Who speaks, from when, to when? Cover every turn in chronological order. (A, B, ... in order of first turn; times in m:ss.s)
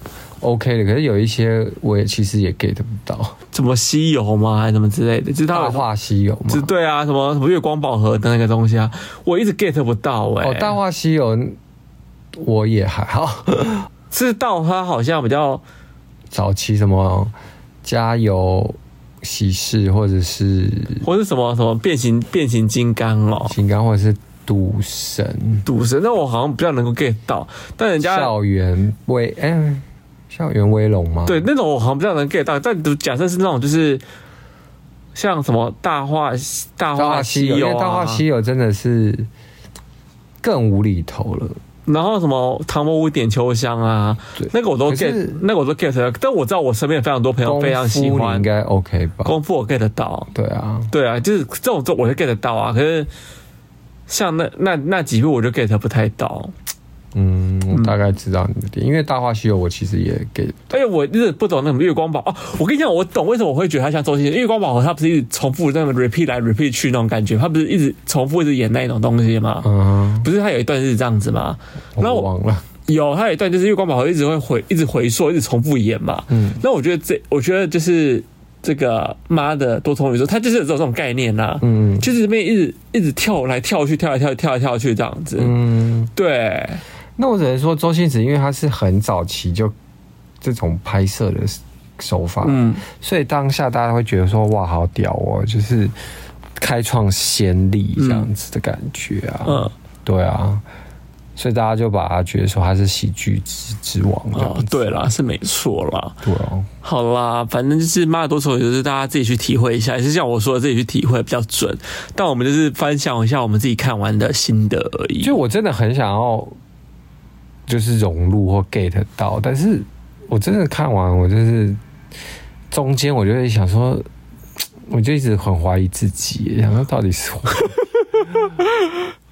0:00.4-0:03.4 A
0:03.5-0:05.8 B
0:05.5-0:06.7 A
0:06.5-0:10.8 B
0:10.4-0:11.6 A
0:12.3-0:13.9 A
0:14.1-0:15.6 B
0:16.3-0:17.3 A
0:17.8-0:21.1 A
0:21.0-0:23.6 B
0:23.4-0:25.7 A
0:25.6-0:28.3 B
0:28.0-0:31.5 A
0:31.3-0:34.0 B
0:35.2-0:38.2 B
0:37.0-0:39.3 A
0:40.4-0:41.6 A
0:41.9-0:48.5 B
0:44.4-0:45.4 A
0:47.4-0:49.4 A
0:49.2-0:50.3 B
0:50.3-0:50.9 A
0:50.9-0:53.1 B
0:54.1-0:56.5 B
0:57.1-1:00.7 A
1:00.7-1:09.7 B
1:09.6-1:10.3 A
1:10.2-1:12.3 B
1:12.0-1:12.7 A
1:12.9-1:25.6 B
1:16.3-1:16.6 A
1:21.6-1:22.1 A
1:25.4-1:26.1 A
1:26.2-1:26.8 B
1:27.2-1:29.7 A
1:30.4-1:35.9 A
1:32.4-1:32.8 B
1:36.6-1:40.6 A
1:38.0-1:38.3 B
1:39.4-1:39.7 B
1:41.4-1:45.0 A
1:44.3-1:46.2 B
1:46.2-1:46.7 A
1:46.8-1:55.4 B
1:55.2-1:56.6 A
1:57.7-2:01.8 A
2:02.7-2:04.1 A
2:04.9-2:07.8 A
2:08.5-2:09.0 B